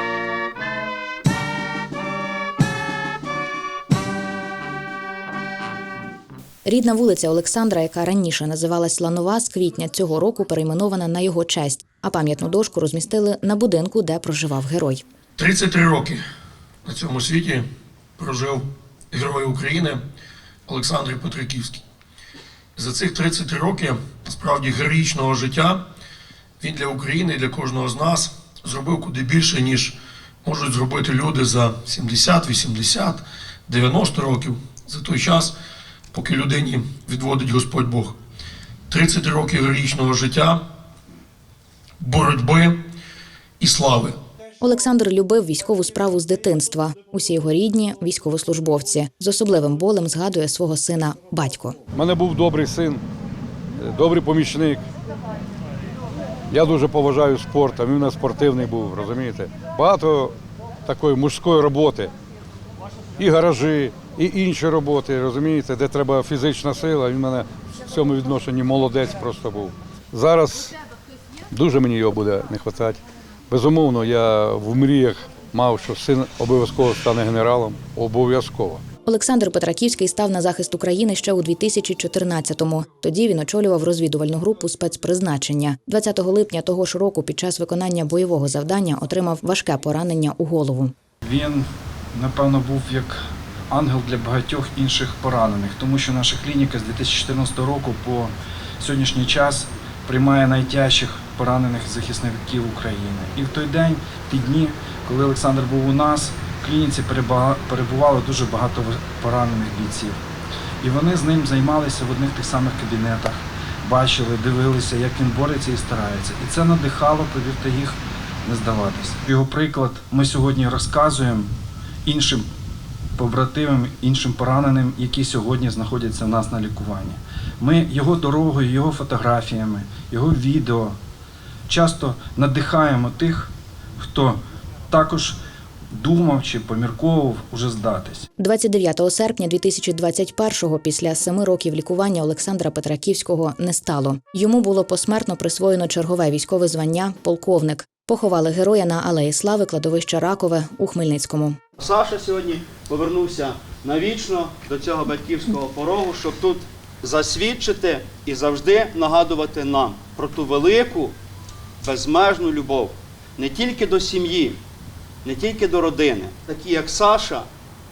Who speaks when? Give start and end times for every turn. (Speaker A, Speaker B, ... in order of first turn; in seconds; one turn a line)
Speaker A: 6.7-15.0
Speaker B: 15.4-16.2
Speaker B: 16.8-17.6
Speaker B: 18.2-20.0
Speaker B: 20.7-21.8
Speaker B: 22.8-25.8
Speaker B: 26.6-35.5
Speaker B: 36.1-38.2
Speaker B: 38.9-40.6
Speaker B: 42.0-42.8
Speaker B: 43.6-44.1
Speaker A: 44.6-51.8
Speaker C: 51.9-53.0
Speaker C: 53.8-54.8
Speaker C: 56.5-60.3
Speaker C: 60.9-62.1
Speaker C: 63.2-70.7
Speaker C: 71.5-78.8
Speaker A: 79.0-90.9
Speaker D: 91.2-110.2
Speaker D: 110.8-121.5
Speaker D: 122.0-122.5
Speaker D: 123.2-131.0
Speaker D: 131.7-135.4
Speaker D: 135.9-138.3
Speaker A: 138.4-151.6
Speaker E: 151.8-161.1
Speaker E: 161.8-164.6
Speaker E: 165.2-167.4